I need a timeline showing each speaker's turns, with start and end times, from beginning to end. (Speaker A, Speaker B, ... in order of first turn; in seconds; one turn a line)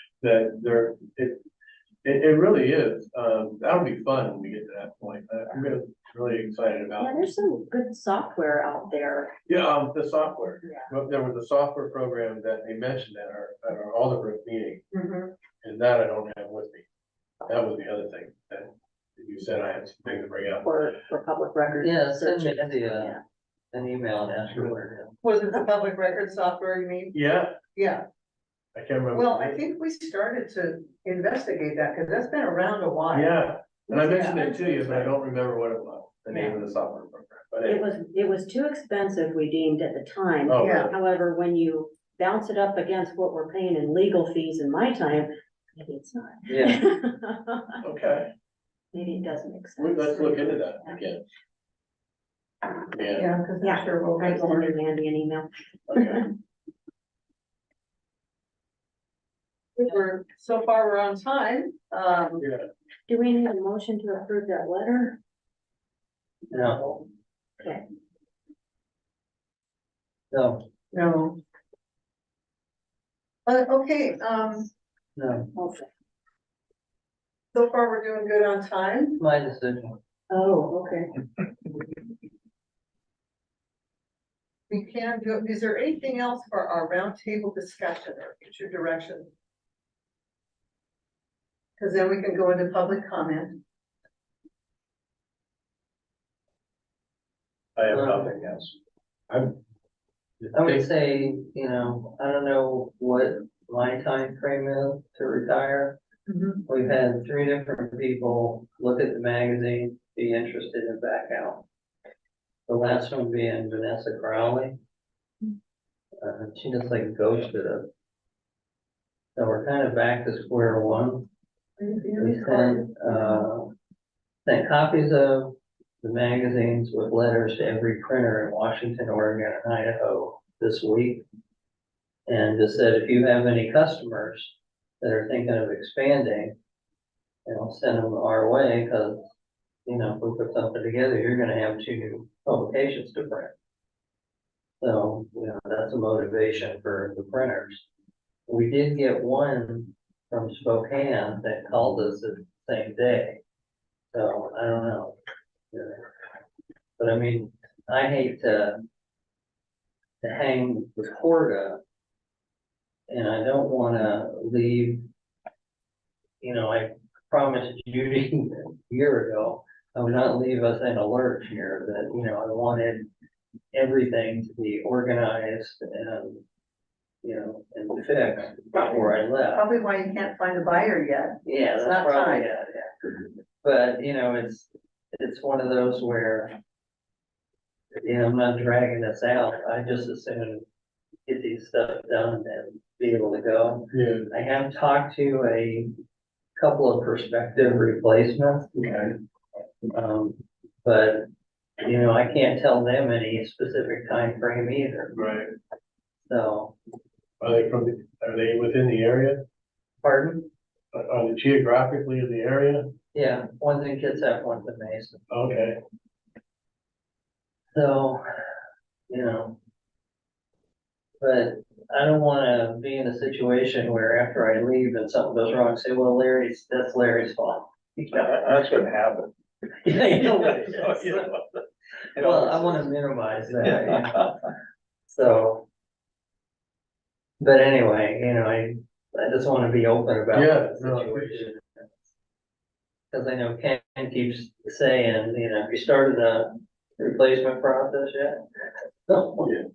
Speaker A: 0.2-1.4
Speaker A: 2.0-7.3
Speaker B: 7.0-9.3
Speaker A: 9.5-14.8
Speaker C: 14.9-15.3
Speaker A: 15.6-16.9
Speaker A: 17.4-20.7
Speaker B: 20.6-23.2
Speaker D: 21.8-23.2
Speaker D: 23.7-25.1
Speaker C: 25.2-27.2
Speaker A: 27.1-27.6
Speaker C: 27.7-28.0
Speaker A: 28.7-29.6
Speaker C: 29.1-33.4
Speaker A: 33.1-37.9
Speaker B: 33.9-35.0
Speaker B: 37.6-47.8
Speaker A: 40.4-40.9
Speaker C: 40.6-40.9
Speaker D: 46.5-46.8
Speaker A: 47.8-48.3
Speaker B: 48.9-51.0
Speaker A: 49.8-51.2
Speaker A: 52.9-53.3
Speaker C: 53.1-54.7
Speaker B: 53.6-56.2
Speaker A: 55.9-56.2
Speaker C: 59.8-62.4
Speaker A: 62.4-62.7
Speaker B: 63.1-65.2
Speaker D: 66.5-67.0
Speaker D: 70.3-70.6
Speaker C: 70.9-71.4
Speaker C: 73.5-74.7
Speaker D: 75.2-75.5
Speaker B: 75.5-75.8
Speaker C: 77.5-79.2
Speaker D: 79.2-80.0
Speaker B: 80.3-81.1
Speaker C: 84.7-89.3
Speaker C: 91.8-93.6
Speaker A: 97.8-98.8
Speaker D: 97.9-98.3
Speaker A: 99.3-99.5
Speaker A: 100.4-100.8
Speaker D: 100.5-106.0
Speaker C: 106.3-106.6
Speaker D: 106.7-111.6
Speaker D: 112.7-114.7
Speaker D: 116.2-117.9
Speaker D: 119.3-121.3
Speaker C: 121.8-123.2
Speaker D: 122.2-123.7
Speaker D: 124.5-131.2
Speaker D: 132.3-136.5
Speaker D: 137.4-139.3
Speaker D: 139.8-143.5
Speaker D: 144.8-147.8
Speaker D: 148.5-153.4
Speaker D: 154.1-155.1
Speaker D: 155.7-156.1
Speaker D: 157.0-158.8
Speaker D: 160.2-161.8
Speaker D: 163.1-165.0
Speaker D: 166.4-173.1
Speaker D: 173.7-176.4
Speaker D: 177.2-179.6
Speaker C: 179.5-182.5
Speaker D: 181.4-182.9
Speaker D: 183.6-186.6
Speaker D: 188.0-190.6
Speaker D: 191.2-195.9
Speaker A: 193.9-194.3
Speaker D: 196.6-198.7
Speaker A: 198.7-199.1
Speaker D: 199.9-201.2
Speaker D: 201.8-205.1
Speaker A: 205.1-205.5
Speaker D: 206.2-206.8
Speaker A: 207.4-209.4
Speaker D: 210.0-210.5
Speaker A: 210.9-212.9
Speaker D: 213.1-215.2
Speaker A: 215.3-215.8
Speaker D: 217.7-218.2
Speaker D: 219.1-219.6
Speaker D: 221.2-228.4
Speaker E: 228.1-229.3
Speaker D: 229.8-231.3
Speaker E: 229.9-231.2
Speaker E: 232.2-232.8
Speaker D: 232.2-234.2
Speaker E: 233.6-234.3
Speaker D: 235.1-235.7
Speaker D: 237.4-241.8
Speaker A: 240.3-241.5
Speaker D: 243.1-248.4
Speaker D: 249.1-249.5